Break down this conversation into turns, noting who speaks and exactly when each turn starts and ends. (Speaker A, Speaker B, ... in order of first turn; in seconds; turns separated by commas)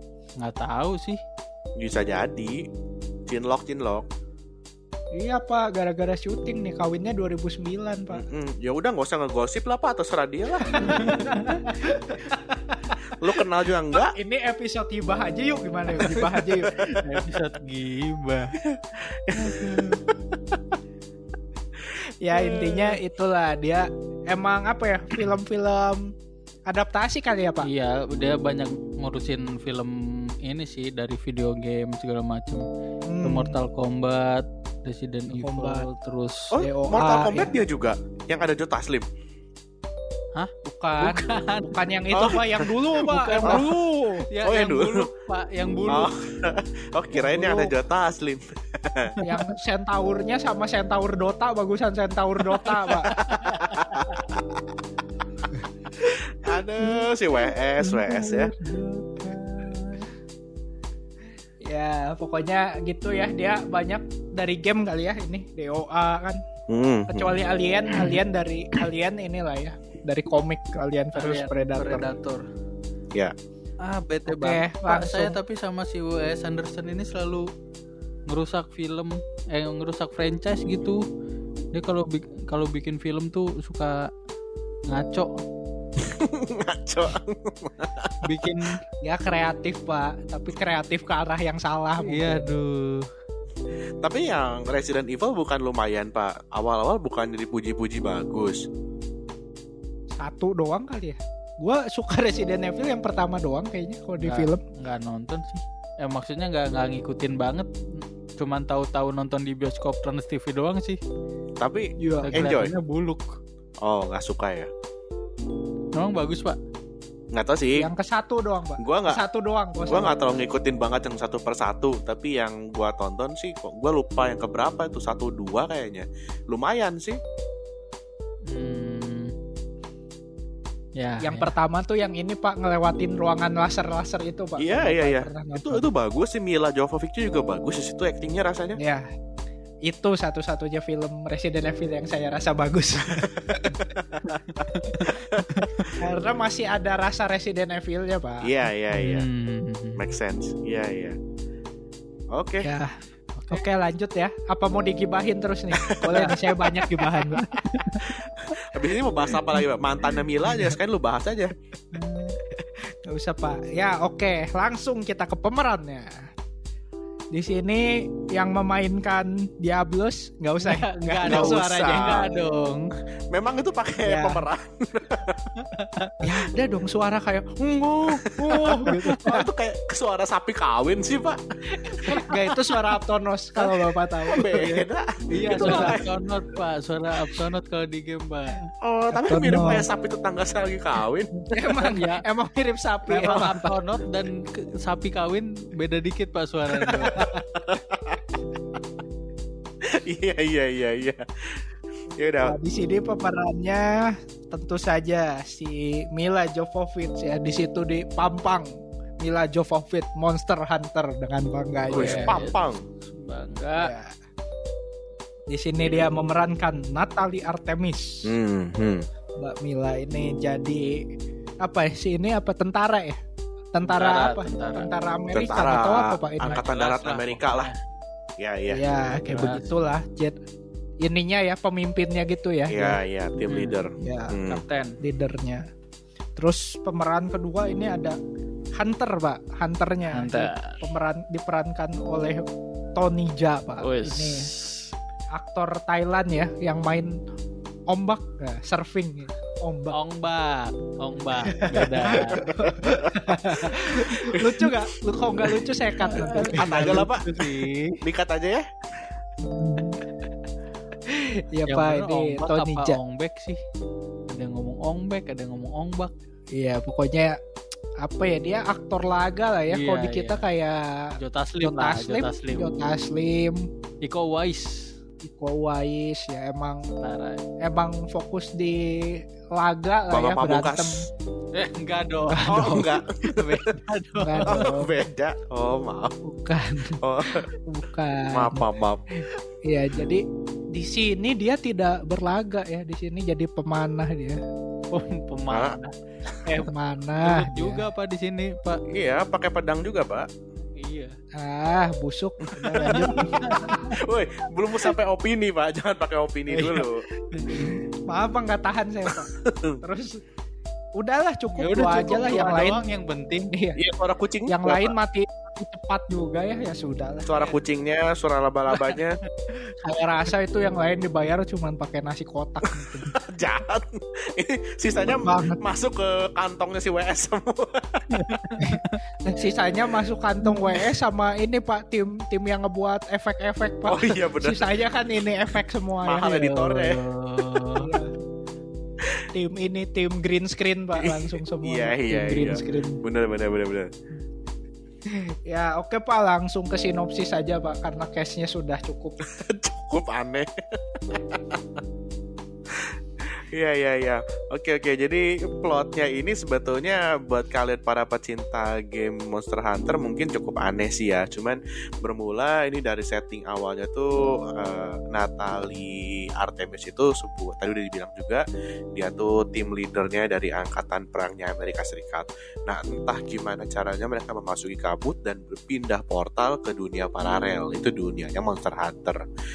Speaker A: 0.4-1.2, Speaker B: 1.8-2.6, Speaker B: 3.3-4.1, Speaker C: 5.1-8.3, Speaker B: 8.1-11.2, Speaker C: 10.7-13.0, Speaker A: 10.8-11.7, Speaker B: 13.2-14.1, Speaker C: 13.9-17.0, Speaker A: 17.0-18.6, Speaker B: 18.6-20.0, Speaker C: 19.4-19.9, Speaker C: 22.2-26.1, Speaker B: 22.3-23.0, Speaker C: 26.7-27.7, Speaker A: 27.6-32.6, Speaker C: 33.1-33.6, Speaker A: 33.2-36.5, Speaker C: 35.3-35.9, Speaker B: 36.5-39.1, Speaker C: 36.6-37.5, Speaker A: 40.3-41.8, Speaker C: 40.6-44.2, Speaker B: 42.1-43.7, Speaker A: 42.9-46.1, Speaker B: 44.4-45.1, Speaker B: 45.9-49.1, Speaker C: 47.1-47.7, Speaker A: 49.1-49.5, Speaker C: 49.2-53.3, Speaker A: 52.6-54.2, Speaker B: 53.5-54.7, Speaker B: 56.3-58.5, Speaker C: 57.9-60.1, Speaker C: 61.6-66.4, Speaker B: 66.7-67.4, Speaker C: 67.1-72.0, Speaker A: 71.1-72.4, Speaker A: 73.8-77.5, Speaker C: 74.3-75.4, Speaker A: 78.3-81.0, Speaker A: 81.7-84.1, Speaker A: 84.9-85.4, Speaker B: 86.0-88.7, Speaker A: 88.2-88.8, Speaker C: 89.0-92.5, Speaker A: 92.0-93.1, Speaker B: 94.0-98.7, Speaker C: 100.2-104.6, Speaker A: 104.2-111.0, Speaker B: 111.6-112.7, Speaker C: 112.0-112.4, Speaker A: 112.2-113.4, Speaker B: 113.8-114.7, Speaker A: 115.9-116.6, Speaker B: 117.3-117.9, Speaker C: 117.8-120.2, Speaker B: 118.8-119.2, Speaker B: 119.9-127.2, Speaker A: 128.5-129.3, Speaker A: 131.0-131.5, Speaker C: 131.2-135.9, Speaker B: 134.6-138.8, Speaker C: 138.8-139.1, Speaker C: 139.8-144.0, Speaker B: 143.1-146.0, Speaker A: 144.3-145.8, Speaker C: 146.0-148.5, Speaker B: 148.4-149.3, Speaker A: 148.9-150.1, Speaker B: 149.9-151.2, Speaker B: 152.3-152.7, Speaker C: 152.6-153.0, Speaker A: 153.3-153.6, Speaker C: 153.5-158.0, Speaker B: 155.7-156.9, Speaker A: 156.1-156.3, Speaker A: 157.0-158.1, Speaker B: 158.0-161.5, Speaker C: 161.9-162.5, Speaker C: 163.1-166.3, Speaker C: 167.3-172.3, Speaker A: 170.6-172.9, Speaker B: 171.2-172.3, Speaker B: 173.3-175.5, Speaker C: 174.0-174.5, Speaker A: 175.6-176.2, Speaker C: 176.2-177.6, Speaker B: 177.6-182.4, Speaker C: 178.1-179.5, Speaker A: 178.4-179.2, Speaker C: 181.7-184.8, Speaker A: 182.0-182.4, Speaker A: 184.2-184.7, Speaker B: 184.3-186.1, Speaker A: 185.3-188.7, Speaker C: 185.5-186.0, Speaker B: 188.8-191.3, Speaker C: 189.2-189.9, Speaker C: 191.4-193.8, Speaker A: 191.6-192.2, Speaker A: 193.1-197.3, Speaker B: 196.8-198.2, Speaker B: 199.8-202.6, Speaker C: 202.4-212.3, Speaker A: 211.9-213.9, Speaker B: 211.9-212.8, Speaker C: 213.8-214.1, Speaker C: 215.5-218.3, Speaker B: 218.2-219.1, Speaker C: 219.4-221.0, Speaker C: 221.6-223.2, Speaker C: 223.7-226.6, Speaker A: 223.9-224.9, Speaker B: 225.3-227.7, Speaker A: 226.4-227.8, Speaker B: 228.4-228.8, Speaker C: 228.7-230.3, Speaker A: 229.2-229.7, Speaker C: 231.0-233.0, Speaker B: 232.7-234.6, Speaker A: 233.5-233.7, Speaker C: 234.0-234.4, Speaker A: 234.4-235.0, Speaker C: 235.0-235.6, Speaker C: 236.3-238.2, Speaker C: 238.8-242.4, Speaker A: 240.1-240.8, Speaker C: 242.9-244.5, Speaker A: 243.8-244.9, Speaker C: 245.3-247.2, Speaker C: 247.9-249.9, Speaker A: 249.9-252.5, Speaker C: 251.5-257.1, Speaker B: 252.3-254.7, Speaker A: 256.0-258.0, Speaker B: 256.5-257.4, Speaker B: 258.0-258.6, Speaker C: 259.5-260.0, Speaker C: 261.1-263.0, Speaker A: 261.6-263.6, Speaker A: 264.3-266.1, Speaker C: 266.5-267.4, Speaker C: 268.0-273.7, Speaker A: 269.7-270.4, Speaker A: 271.2-272.7, Speaker A: 274.0-274.9, Speaker C: 275.2-276.9, Speaker A: 277.0-277.4, Speaker C: 277.6-281.1, Speaker B: 280.1-281.1, Speaker A: 281.5-284.6, Speaker C: 282.3-282.9, Speaker B: 282.5-283.7, Speaker C: 284.2-284.9, Speaker B: 284.4-286.2, Speaker C: 286.2-288.6, Speaker B: 287.0-287.5, Speaker B: 288.3-289.0, Speaker C: 289.2-294.4, Speaker A: 294.9-295.9, Speaker B: 295.5-295.8, Speaker C: 296.4-297.8, Speaker A: 297.2-298.8, Speaker B: 298.9-300.3, Speaker A: 300.8-301.1, Speaker C: 301.3-303.9, Speaker B: 302.6-307.0, Speaker A: 302.8-304.0, Speaker C: 306.5-309.3, Speaker A: 307.3-307.8, Speaker B: 309.1-309.8, Speaker C: 309.8-310.2, Speaker C: 310.9-312.8, Speaker A: 311.5-313.5, Speaker C: 313.5-313.8, Speaker B: 313.8-314.9, Speaker C: 314.5-317.3, Speaker B: 317.2-319.2, Speaker C: 319.8-323.1, Speaker B: 322.8-328.4, Speaker C: 325.1-325.6, Speaker A: 328.1-329.0, Speaker C: 328.6-336.6, Speaker B: 333.9-334.9, Speaker B: 336.0-337.0, Speaker A: 336.3-337.9, Speaker C: 337.8-338.1, Speaker C: 339.3-343.0, Speaker B: 340.9-343.9, Speaker C: 345.1-349.2, Speaker B: 349.2-351.8, Speaker B: 352.7-368.4, Speaker B: 368.9-379.2